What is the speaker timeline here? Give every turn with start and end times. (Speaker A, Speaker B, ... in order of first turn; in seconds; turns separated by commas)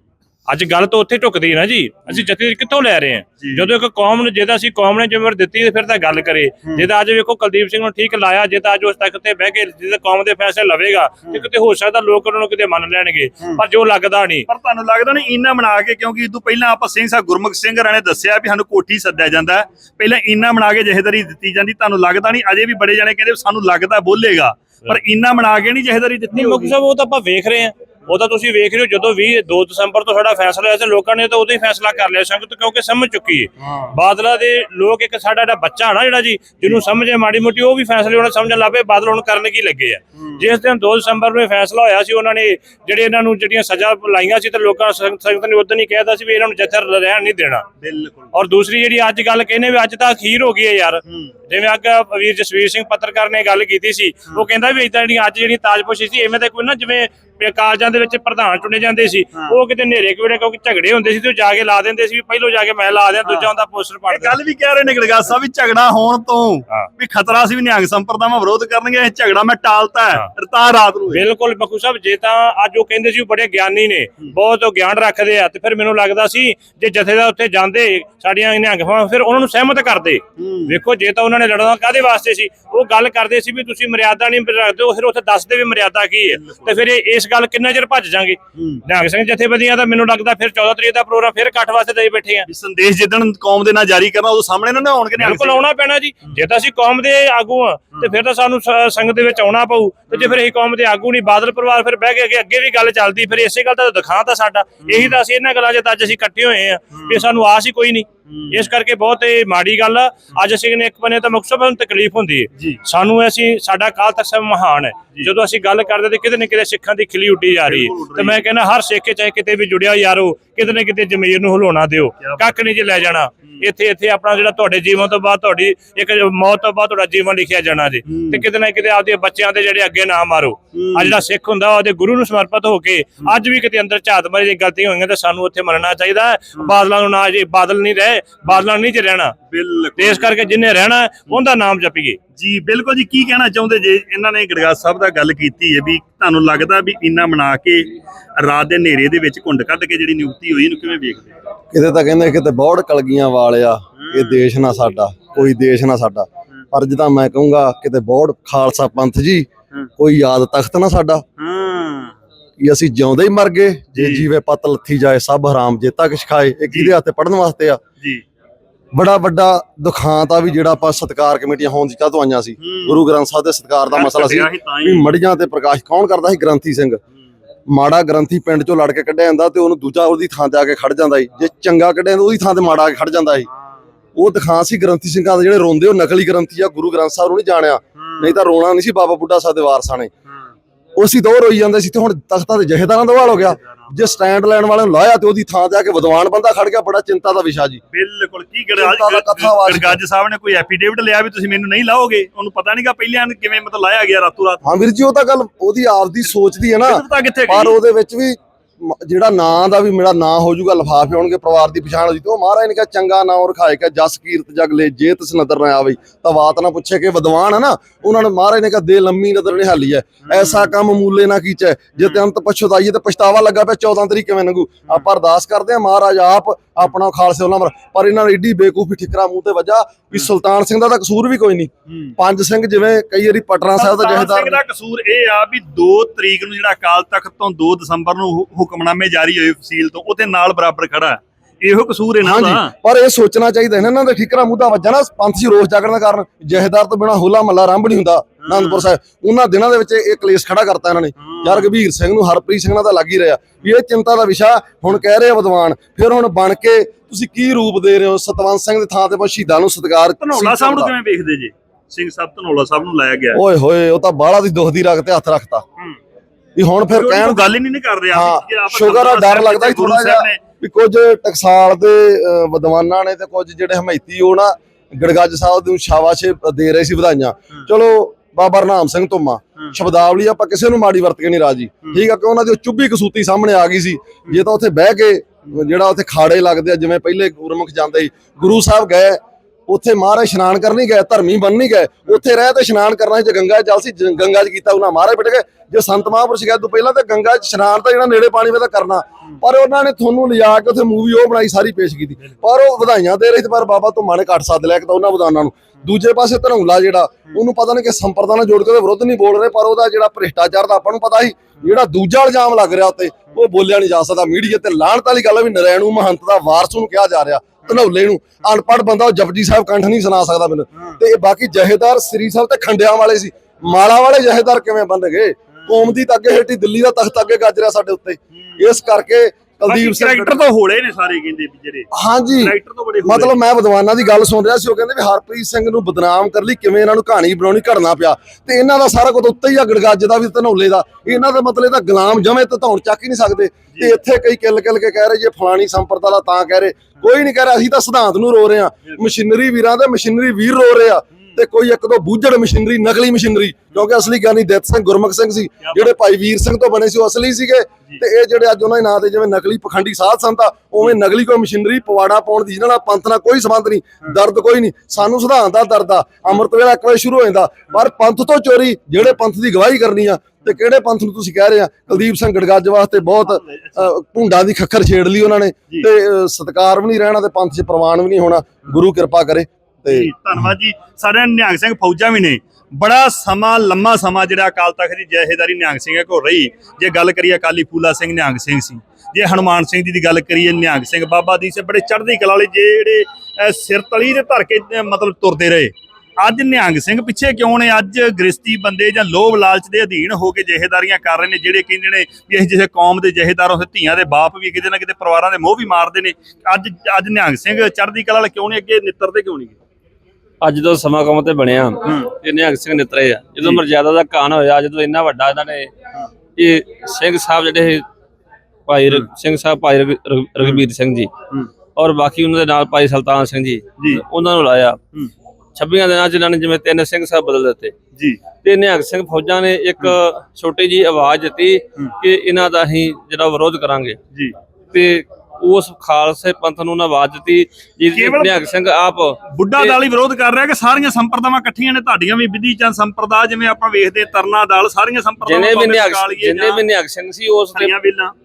Speaker A: 0.5-14.4, Speaker B: 3.4-3.7, Speaker B: 14.5-26.7, Speaker A: 26.3-47.6, Speaker B: 33.6-33.9, Speaker B: 47.8-48.3, Speaker A: 48.3-64.3, Speaker B: 63.2-63.5, Speaker B: 64.1-71.2, Speaker A: 71.1-92.5, Speaker B: 80.4-80.8, Speaker B: 86.2-86.8, Speaker B: 88.5-88.8, Speaker B: 92.5-95.6, Speaker A: 95.2-139.3, Speaker B: 100.1-100.4, Speaker B: 104.8-105.2, Speaker B: 108.3-108.7, Speaker B: 112.5-112.8, Speaker B: 117.5-118.4, Speaker B: 122.2-122.5, Speaker B: 128.1-128.4, Speaker B: 130.7-131.2, Speaker B: 139.5-140.3, Speaker A: 140.0-142.2, Speaker B: 142.3-151.3, Speaker C: 151.7-159.5, Speaker B: 154.0-154.4, Speaker C: 160.0-161.2, Speaker B: 161.4-162.1, Speaker C: 162.6-167.8, Speaker B: 163.9-164.2, Speaker B: 166.7-166.9, Speaker C: 168.9-177.0, Speaker B: 172.6-173.0, Speaker B: 173.9-175.1, Speaker C: 177.7-183.5, Speaker C: 184.2-190.1, Speaker B: 188.0-188.4, Speaker C: 191.0-197.8, Speaker B: 193.2-193.9, Speaker B: 197.9-204.7, Speaker C: 198.8-200.0, Speaker C: 204.6-234.6, Speaker B: 206.8-207.8, Speaker B: 220.2-220.7, Speaker B: 222.0-222.2, Speaker B: 231.9-232.1, Speaker B: 233.8-242.7, Speaker C: 242.2-260.9, Speaker B: 248.4-248.9, Speaker B: 251.2-251.7, Speaker B: 260.2-263.4, Speaker C: 263.3-265.6, Speaker C: 266.6-267.5, Speaker B: 266.9-270.4, Speaker C: 268.1-330.4, Speaker B: 325.6-325.9, Speaker B: 329.7-333.3, Speaker C: 331.9-380.1, Speaker B: 343.7-344.0, Speaker B: 355.6-355.9, Speaker B: 373.2-373.9, Speaker B: 379.9-409.5, Speaker D: 410.4-415.7, Speaker B: 411.8-412.1, Speaker D: 416.4-417.8, Speaker D: 418.7-421.1, Speaker D: 421.8-424.8, Speaker D: 425.6-427.7, Speaker D: 428.4-434.0, Speaker D: 434.7-439.8, Speaker B: 437.9-438.4, Speaker B: 439.3-446.6, Speaker D: 445.2-447.7, Speaker B: 447.5-448.1